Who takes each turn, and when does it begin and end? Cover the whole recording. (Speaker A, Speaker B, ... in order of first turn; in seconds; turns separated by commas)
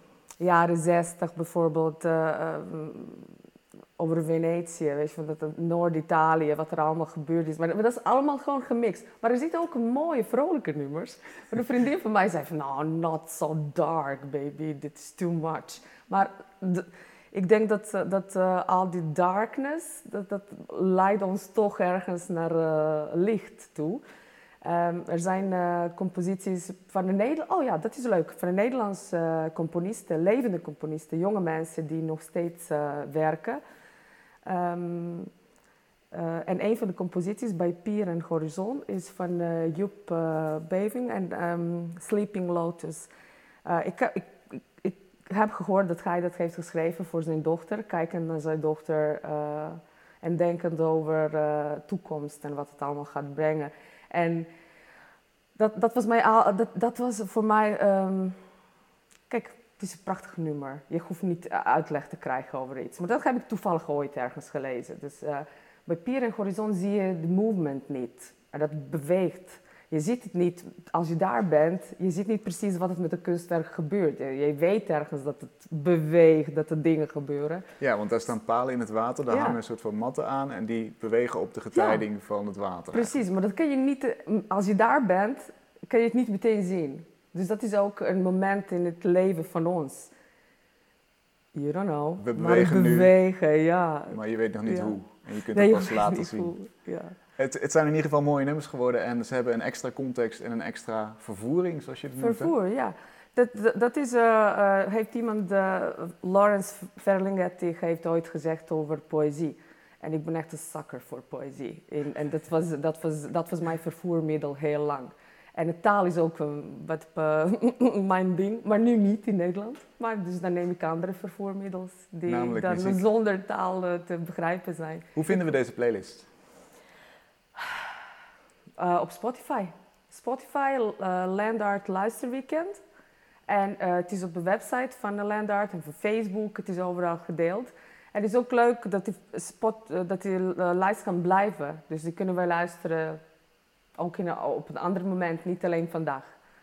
Speaker A: 0.4-3.3, Speaker A: 4.0-24.0, Speaker A: 24.6-33.6, Speaker A: 34.5-35.3, Speaker A: 36.1-43.1, Speaker A: 43.6-54.5, Speaker A: 55.6-58.4, Speaker A: 59.3-77.7, Speaker B: 77.8-83.2, Speaker A: 79.3-79.6, Speaker A: 81.7-82.1, Speaker A: 82.9-90.1, Speaker A: 91.5-95.0, Speaker B: 92.2-93.2, Speaker B: 94.1-96.5, Speaker A: 95.5-97.2, Speaker B: 97.4-102.5, Speaker A: 102.2-125.1, Speaker B: 122.3-123.0, Speaker B: 125.2-126.3, Speaker A: 128.8-132.8, Speaker A: 133.5-143.2, Speaker A: 144.0-146.3